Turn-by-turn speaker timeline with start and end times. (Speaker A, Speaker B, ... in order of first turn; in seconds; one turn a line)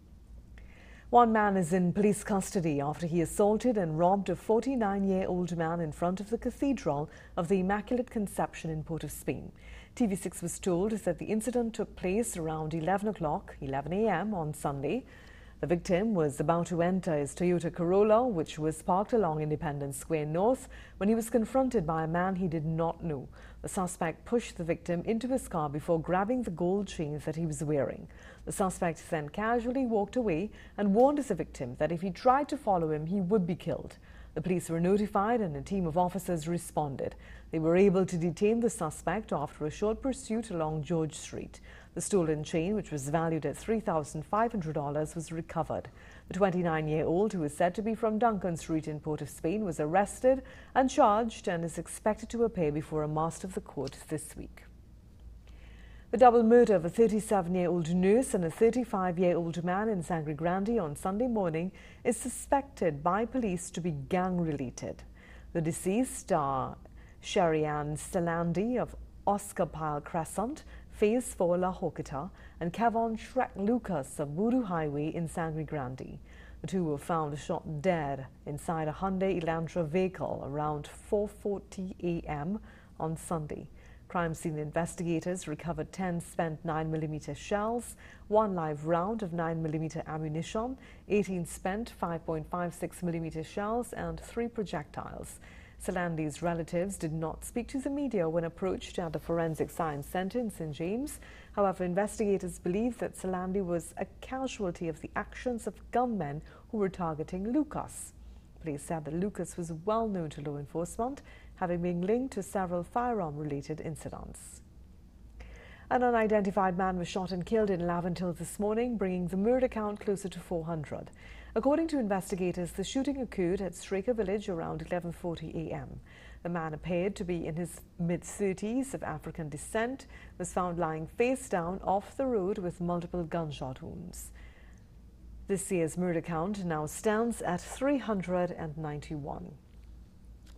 Speaker A: 1.1-15.1
Speaker A: 15.6-54.7
Speaker A: 56.1-114.6
Speaker A: 115.9-134.3
Speaker A: 135.5-139.6